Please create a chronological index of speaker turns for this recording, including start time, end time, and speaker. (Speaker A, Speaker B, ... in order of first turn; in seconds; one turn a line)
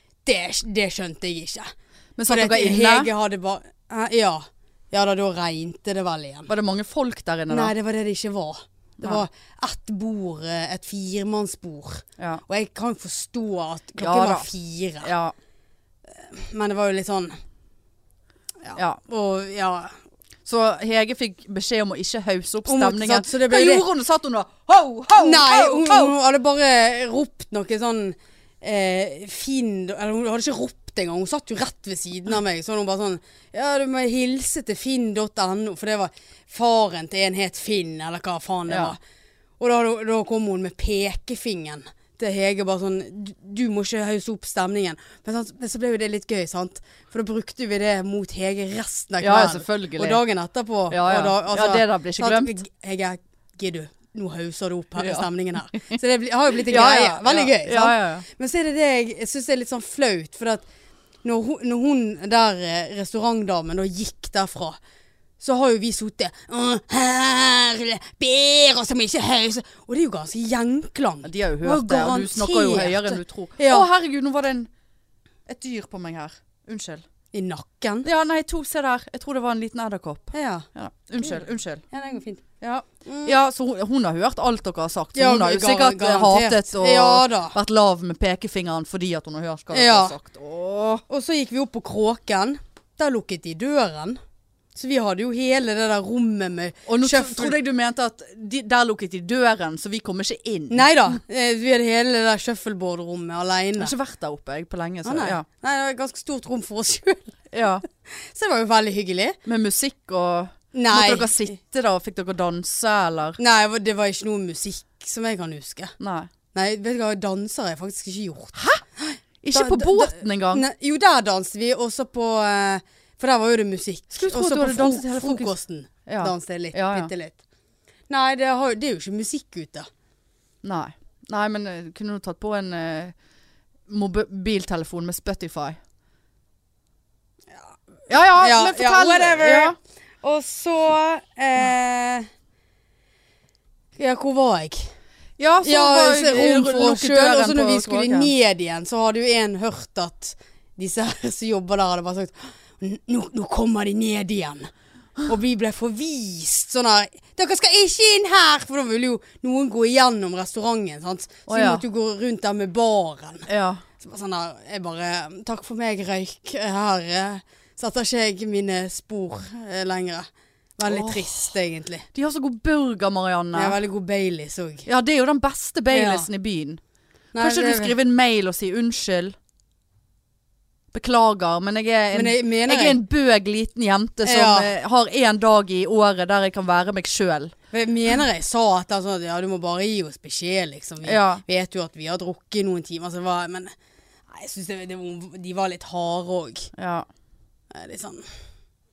Speaker A: 0.2-1.7
Speaker B: 2.2-3.1
Speaker A: 2.3-6.5
Speaker B: 6.5-7.7
Speaker A: 7.5-15.1
Speaker B: 14.0-14.5
Speaker B: 15.0-15.3
Speaker A: 16.2-17.4
Speaker A: 18.6-19.9
Speaker B: 20.4-26.1
Speaker A: 22.6-23.8
Speaker A: 25.2-39.0
Speaker B: 38.7-38.9
Speaker A: 39.6-60.6
Speaker B: 49.2-50.2
Speaker B: 50.9-52.6
Speaker B: 55.0-55.9
Speaker B: 56.7-58.2
Speaker A: 61.2-64.8
Speaker A: 65.4-73.9
Speaker B: 71.2-74.7
Speaker B: 75.5-77.0
Speaker A: 77.3-78.1
Speaker B: 78.0-81.8
Speaker A: 80.3-80.7
Speaker A: 81.2-82.4
Speaker B: 82.6-91.0
Speaker A: 83.0-83.3
Speaker A: 85.1-87.5
Speaker A: 89.7-90.1
Speaker A: 91.1-94.2
Speaker A: 94.7-97.6
Speaker B: 96.9-100.9
Speaker A: 100.7-103.9
Speaker B: 103.8-105.4
Speaker A: 105.0-107.4
Speaker B: 107.5-107.8
Speaker A: 108.0-109.4
Speaker B: 109.5-113.4
Speaker A: 110.7-111.4
Speaker A: 113.4-115.9
Speaker B: 116.0-116.3
Speaker A: 116.5-127.4
Speaker B: 118.5-118.8
Speaker B: 119.4-120.6
Speaker B: 124.1-125.5
Speaker B: 126.0-127.1
Speaker A: 128.1-129.9
Speaker B: 130.6-133.1
Speaker B: 133.9-135.8
Speaker B: 138.1-139.8
Speaker A: 138.1-142.3
Speaker A: 144.0-144.9
Speaker B: 145.4-148.3
Speaker A: 145.6-154.7
Speaker A: 155.2-163.5
Speaker B: 161.5-161.8
Speaker B: 163.5-163.8
Speaker A: 164.0-172.1
Speaker B: 170.8-171.3
Speaker B: 172.1-173.8
Speaker A: 173.5-174.9
Speaker B: 174.8-176.8
Speaker A: 175.9-176.3
Speaker A: 177.3-177.9
Speaker B: 177.4-179.3
Speaker B: 180.9-187.5
Speaker A: 182.1-183.0
Speaker A: 184.2-184.7
Speaker A: 187.7-193.7
Speaker B: 191.0-191.4
Speaker A: 194.3-196.7
Speaker B: 196.8-197.1
Speaker A: 197.7-198.3